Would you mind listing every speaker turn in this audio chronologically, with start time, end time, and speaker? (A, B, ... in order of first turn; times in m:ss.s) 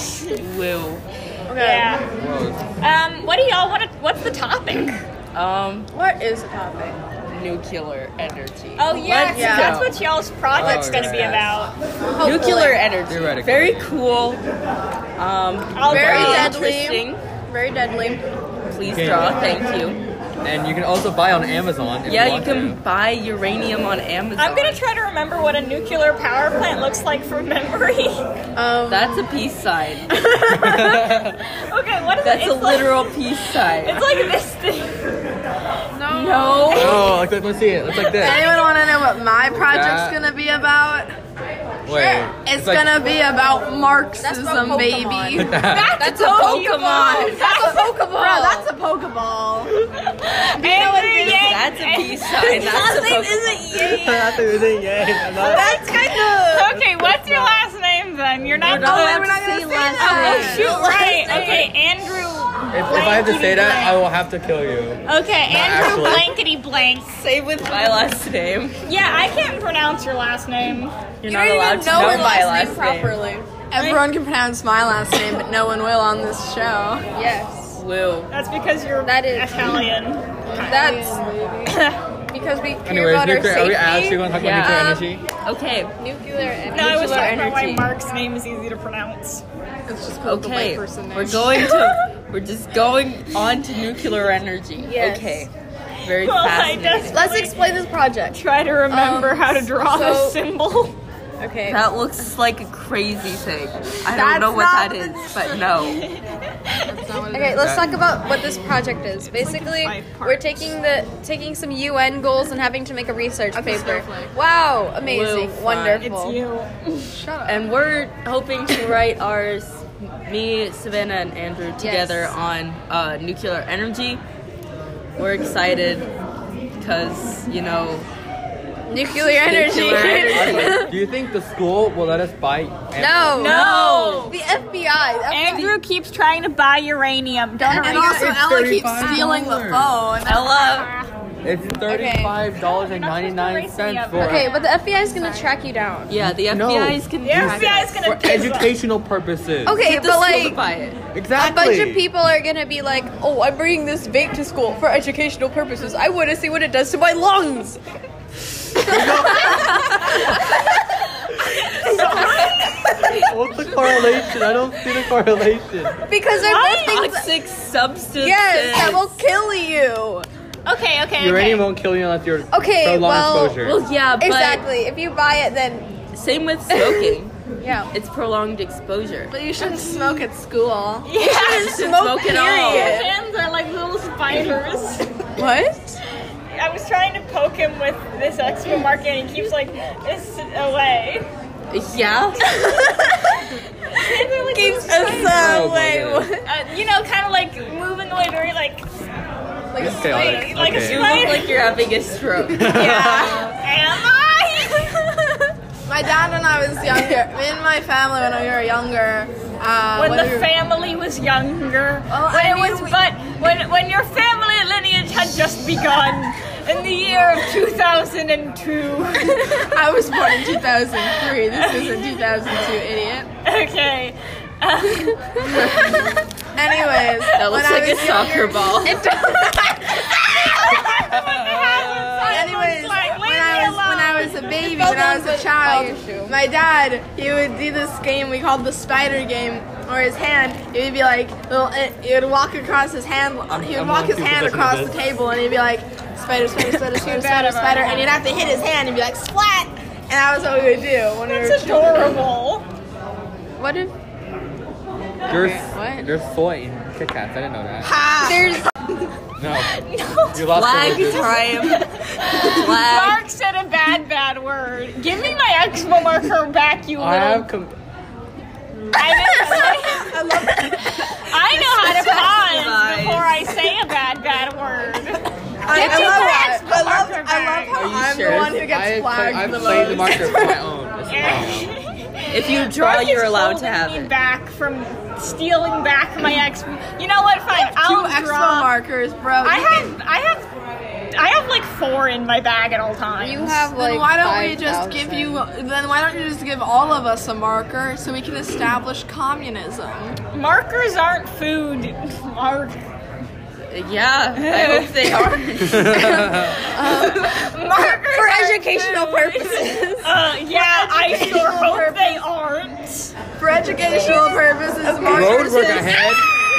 0:00.4-0:01.0 A
0:01.5-0:01.9 B
0:01.6-0:02.0 C
0:02.2-0:02.7 D
0:02.8-0:05.0 C
0:05.3-0:05.9 A
0:05.9-0:07.0 B
0:07.3-0:09.9 A
0:08.8-0:11.8 C
0:09.3-0:09.8 B
0:10.5-0:11.6 D
0:12.1-0:12.9 B
0:12.2-0:14.4 A
0:13.1-0:13.8 D
0:15.2-0:17.2 A
0:15.7-0:16.6 C
0:15.9-0:18.2 B
0:18.7-0:20.0 A
0:18.8-0:19.6 D
0:20.4-0:22.8 D
0:22.0-0:24.8 A
0:24.4-0:28.2 C
0:28.6-0:29.2 B
0:28.9-0:30.1 A
0:30.4-0:31.4 D
0:31.4-0:33.2 C
0:32.2-0:34.1 A
0:33.8-0:35.2 C
0:35.9-0:37.0 B
0:36.1-0:37.1 A
0:36.7-0:37.1 C
0:36.7-0:38.4 D
0:38.0-0:38.7 C
0:38.2-0:41.1 E
0:39.6-0:40.2 D
0:41.8-0:43.0 D
0:41.9-0:45.6 E
0:44.2-0:46.4 B
0:45.4-0:46.0 D
0:45.6-0:47.9 C
0:46.0-0:47.4 A
0:47.4-0:48.7 B
0:47.6-0:49.8 E
0:50.2-0:52.6 C
0:50.5-0:51.7 E
0:51.2-0:53.6 A
0:52.6-0:54.4 B
0:53.7-0:54.0 E
0:53.7-0:55.6 D
0:55.4-0:59.4 C
0:55.4-0:56.6 B
0:55.8-0:56.6 E
0:56.7-0:57.6 D
0:58.6-0:58.9 D
0:58.6-1:01.1 E
0:58.7-1:00.8 A
0:58.7-1:01.7 B
1:00.0-1:04.1 C
1:02.7-1:06.3 D
1:05.0-1:07.2 C
1:07.1-1:08.8 A
1:08.8-1:11.0 C
1:11.2-1:13.2 A
1:11.2-1:12.7 E
1:11.4-1:13.6 B
1:13.7-1:17.0 E
1:13.8-1:14.0 C
1:17.1-1:17.8 B
1:17.7-1:18.3 A
1:18.3-1:20.8 C
1:19.0-1:19.8 B
1:20.5-1:25.1 B
1:20.5-1:21.3 E
1:21.6-1:22.0 C
1:22.8-1:25.2 D
1:24.3-1:25.9 A
1:26.0-1:27.3 B
1:26.7-1:27.9 A
1:26.7-1:29.4 C
1:29.9-1:31.7 E
1:30.2-1:35.5 A
1:31.5-1:31.9 C
1:34.8-1:35.5 B
1:36.0-1:37.2 A
1:36.2-1:37.6 C
1:37.1-1:40.4 B
1:38.3-1:40.9 C
1:41.4-1:41.9 B
1:41.7-1:46.1 A
1:44.0-1:45.6 E
1:45.6-1:46.8 C
1:46.8-1:47.7 E
1:47.3-1:56.4 B
1:47.6-1:47.9 D
1:49.2-1:50.7 C
1:53.5-1:54.3 E
1:55.1-1:56.1 A
1:56.0-1:57.2 C
1:57.1-1:57.6 E
1:57.4-2:04.2 A
2:01.8-2:02.4 B
2:05.2-2:06.1 A
2:06.8-2:08.1 A
2:08.9-2:10.9 B
2:09.1-2:10.8 A
2:10.2-2:13.4 D
2:12.9-2:13.7 B
2:13.3-2:14.4 C
2:13.4-2:14.3 A
2:14.2-2:15.8 B
2:15.3-2:18.2 C
2:17.6-2:19.7 B
2:17.7-2:20.6 E
2:18.0-2:20.0 D
2:20.2-2:20.9 A
2:20.6-2:21.1 C
2:21.4-2:24.5 D
2:21.8-2:22.4 B
2:22.6-2:25.5 C
2:24.2-2:26.1 B
2:26.1-2:28.1 A
2:26.2-2:29.8 D
2:27.2-2:28.8 C
2:29.6-2:30.6 B
2:29.8-2:31.0 A
2:31.1-2:32.1 D
2:31.3-2:37.8 B
2:38.8-2:40.6 B
2:38.8-2:40.2 D
2:39.6-2:39.9 A
2:41.7-2:44.4 B
2:41.8-2:42.9 C
2:43.2-2:46.0 D
2:46.1-2:47.3 B
2:46.3-2:47.1 C
2:46.8-2:49.1 A
2:48.1-2:50.3 B
2:49.0-2:50.0 E
2:50.6-2:51.7 C
2:51.2-2:53.8 D
2:52.5-2:55.9 B
2:53.6-2:54.6 A
2:56.1-2:57.3 A
2:56.7-2:57.9 B
2:57.9-2:59.3 A
2:59.3-3:01.1 E
2:59.6-3:00.3 B
3:01.0-3:05.1 C
3:01.2-3:03.1 B
3:01.2-3:03.0 A
3:01.9-3:03.0 E
3:05.4-3:06.0 B
3:06.5-3:11.3 C
3:11.7-3:12.4 A
3:12.5-3:13.3 B
3:13.9-3:15.7 C
3:14.0-3:16.5 B
3:15.2-3:16.3 D
3:16.4-3:18.9 C
3:19.7-3:20.6 E
3:19.8-3:21.7 C
3:19.8-3:21.2 D
3:20.7-3:22.8 A
3:22.5-3:23.4 D
3:22.6-3:25.5 C
3:25.8-3:30.5 E
3:29.9-3:39.7 C
3:32.1-3:33.0 E
3:39.5-3:43.3 E
3:41.4-3:42.0 C
3:43.4-3:46.0 C
3:45.5-3:46.2 B
3:46.5-3:49.6 E
3:47.4-3:49.0 A
3:48.8-3:50.9 B
3:50.6-3:54.9 C
3:51.1-3:52.4 D
3:52.2-4:12.2 E
3:54.6-3:56.4 B
4:03.5-4:05.1 D
4:06.9-4:08.2 C
4:11.3-4:12.6 C
4:13.6-4:13.9 B
4:15.3-4:16.1 B
4:15.3-4:17.9 D
4:17.8-4:18.6 E
4:18.2-4:18.7 B
4:19.4-4:19.7 D
4:19.7-4:27.5 C
4:20.3-4:21.4 D
4:20.5-4:23.2 A
4:27.0-4:27.8 D
4:28.9-4:30.2 C
4:29.4-4:31.2 E
4:31.2-4:37.8 C
4:31.5-4:33.4 A
4:35.6-4:40.6 E
4:35.8-4:36.2 A
4:37.7-4:38.6 A
4:37.7-4:41.7 D
4:41.1-4:48.7 C
4:42.3-4:44.1 A
4:47.5-4:50.0 E
4:49.4-4:50.5 C
4:51.1-4:53.5 C
4:53.2-4:55.5 B
4:53.4-5:00.2 E
5:00.3-5:02.8 C
5:03.7-5:06.2 A
5:04.4-5:05.3 C
5:05.7-5:06.6 D
5:05.9-5:11.6 B
5:06.8-5:13.1 C
5:11.2-5:12.1 E
5:13.4-5:15.9 E
5:13.7-5:16.0 B
5:15.1-5:16.3 D